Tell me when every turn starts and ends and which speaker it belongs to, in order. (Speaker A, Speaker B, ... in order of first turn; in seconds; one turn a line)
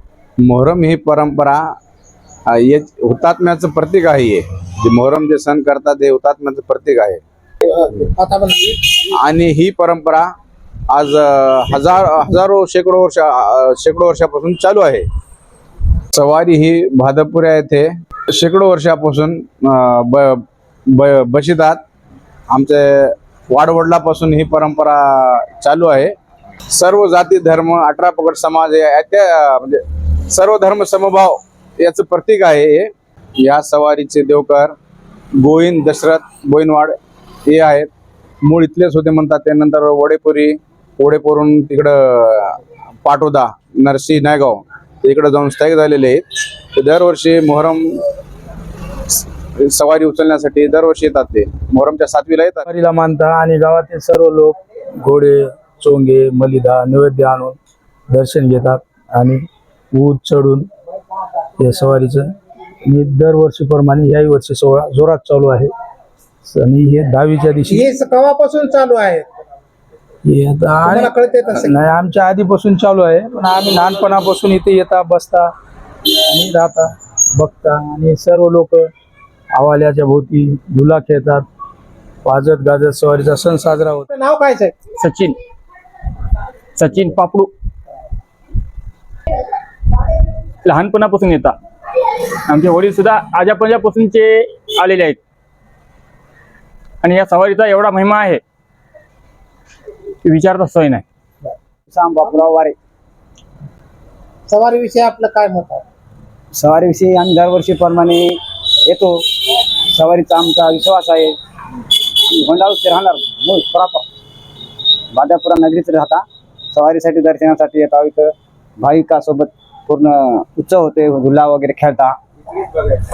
Speaker A: 0.4-1.7
Speaker A: 2.5-7.2
Speaker B: 7.7-8.8
Speaker A: 9.2-10.3
Speaker A: 10.9-15.1
Speaker A: 16.1-21.8
Speaker A: 22.5-26.1
Speaker A: 26.7-32.9
Speaker A: 33.4-34.8
Speaker A: 35.4-37.0
Speaker A: 37.5-37.9
Speaker A: 38.4-48.0
Speaker A: 49.1-52.6
Speaker C: 52.7-57.6
Speaker C: 58.1-60.7
Speaker C: 61.6-62.3
Speaker C: 62.9-65.7
Speaker C: 66.5-67.9
Speaker B: 67.7-69.2
Speaker C: 70.2-75.5
Speaker B: 70.9-71.7
Speaker C: 76.3-78.9
Speaker C: 79.5-81.5
Speaker C: 82.2-84.1
Speaker B: 84.1-84.7
Speaker D: 85.0-85.4
Speaker D: 86.8-87.5
Speaker D: 90.7-95.2
Speaker D: 97.0-98.4
Speaker D: 100.2-101.0
Speaker E: 101.9-102.8
Speaker B: 104.5-105.8
Speaker E: 106.5-111.4
Speaker E: 112.3-114.1
Speaker E: 115.1-122.2